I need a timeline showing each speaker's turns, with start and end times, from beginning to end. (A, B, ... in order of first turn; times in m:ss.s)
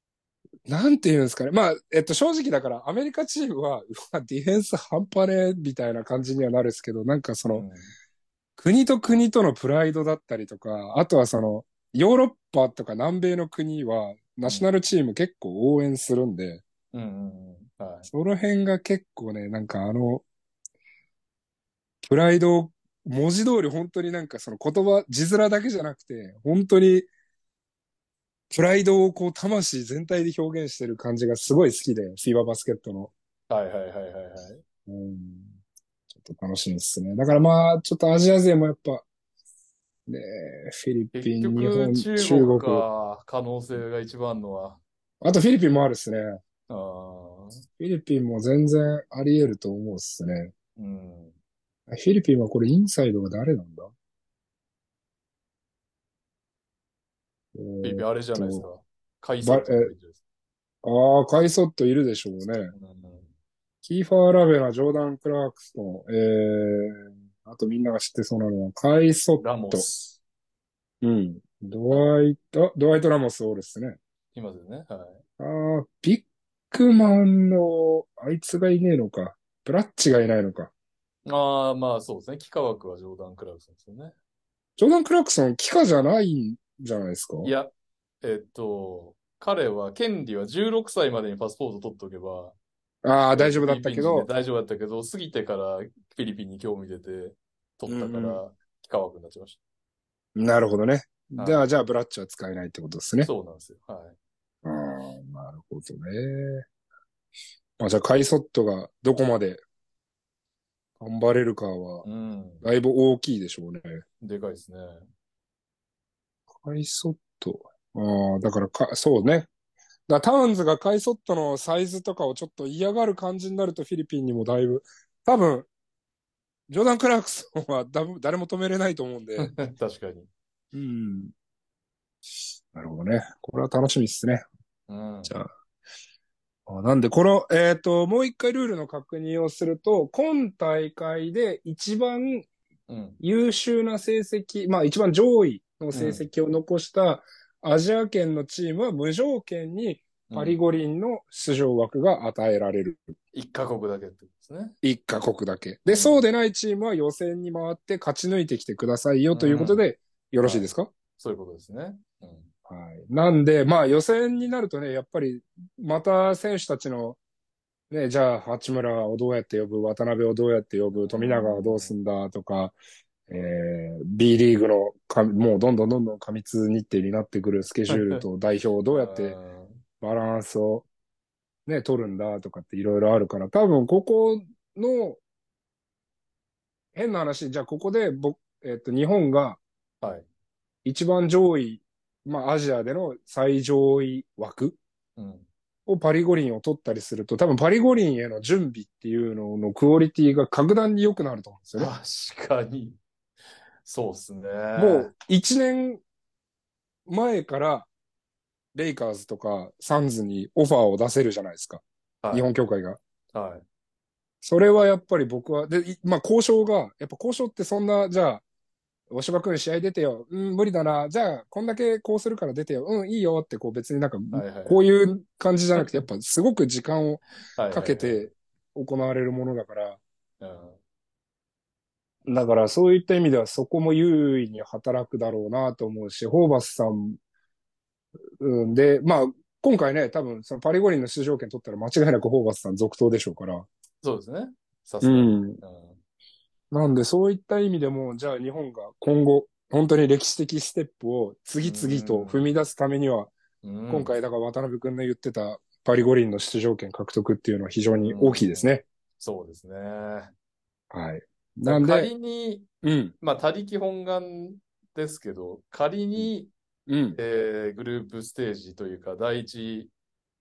0:00.7-0:07.7 A
0:07.5-0:07.9 B
0:08.6-0:16.6 A
0:16.9-0:18.1 B
0:18.1-0:20.2 A
0:22.0-0:27.1 A
0:28.5-0:33.1 A
0:33.5-0:34.6 B
0:34.9-0:35.5 A
0:36.1-0:39.1 A
0:40.1-0:42.8 A
0:41.1-0:44.8 B
0:45.2-0:46.4 A
0:46.7-0:47.6 B
0:47.8-0:50.5 A
0:50.8-0:51.4 B
0:51.9-0:53.9 A
0:57.6-0:58.7 A
0:57.8-1:00.2 B
0:59.4-0:59.9 A
1:00.8-1:02.7 A
1:02.7-1:03.3 B
1:03.8-1:09.9 A
1:09.4-1:10.2 B
1:11.0-1:14.0 A
1:14.3-1:15.2 B
1:15.4-1:20.7 A
1:21.3-1:24.1 B
1:24.8-1:27.5 A
1:27.4-1:27.7 B
1:28.2-1:32.6 B
1:33.0-1:34.3 A
1:33.3-1:39.6 B
1:37.9-1:38.4 A
1:40.4-1:43.3 A
1:41.4-1:41.7 B
1:43.2-1:44.2 B
1:44.6-1:46.6 A
1:47.8-1:49.6 A
1:51.0-1:52.1 A
1:52.0-1:52.6 B
1:52.6-1:54.0 A
1:54.2-1:55.0 B
1:56.6-1:59.5 A
2:00.1-2:05.7 A
2:06.7-2:09.5 A
2:09.4-2:10.3 B
2:10.7-2:11.3 A
2:12.7-2:14.4 A
2:14.9-2:15.3 B
2:16.7-2:22.5 A
2:22.9-2:23.2 B
2:23.2-2:33.0 A
2:25.9-2:26.3 B
2:30.3-2:30.6 B
2:33.3-2:34.8 B
2:34.8-2:40.9 A
2:35.9-2:36.2 B
2:39.3-2:39.9 B
2:40.4-2:42.5 B
2:42.7-2:47.2 A
2:47.9-2:52.8 A
2:50.9-2:51.9 B
2:53.3-2:59.4 A
2:57.9-2:58.2 B
2:58.9-2:59.8 B
3:00.0-3:00.9 A
3:01.7-3:05.2 A
3:07.0-3:09.6 A
3:10.0-3:10.3 B
3:10.8-3:14.8 A
3:15.2-3:15.5 B
3:15.9-3:21.9 A
3:21.8-3:23.0 B
3:23.8-3:25.1 B
3:24.8-3:26.0 A
3:27.1-3:27.9 A
3:28.8-3:33.0 A
3:32.2-3:32.5 B
3:33.3-3:33.6 B
3:34.4-3:38.4 A
3:39.1-3:50.0 A
3:44.3-3:44.9 B
3:47.6-3:48.3 B
3:50.4-3:50.8 B
3:52.3-3:57.2 A
3:58.4-4:03.7 A
4:04.0-4:06.0 B
4:05.0-4:05.6 A
4:06.7-4:13.3 A
4:11.6-4:12.4 B
4:13.6-4:14.1 B
4:13.9-4:18.8 A
4:17.9-4:20.3 B
4:20.9-4:22.1 A
4:21.7-4:22.7 B
4:22.8-4:23.1 A
4:23.2-4:26.5 B
4:26.9-4:27.2 A
4:27.2-4:29.9 B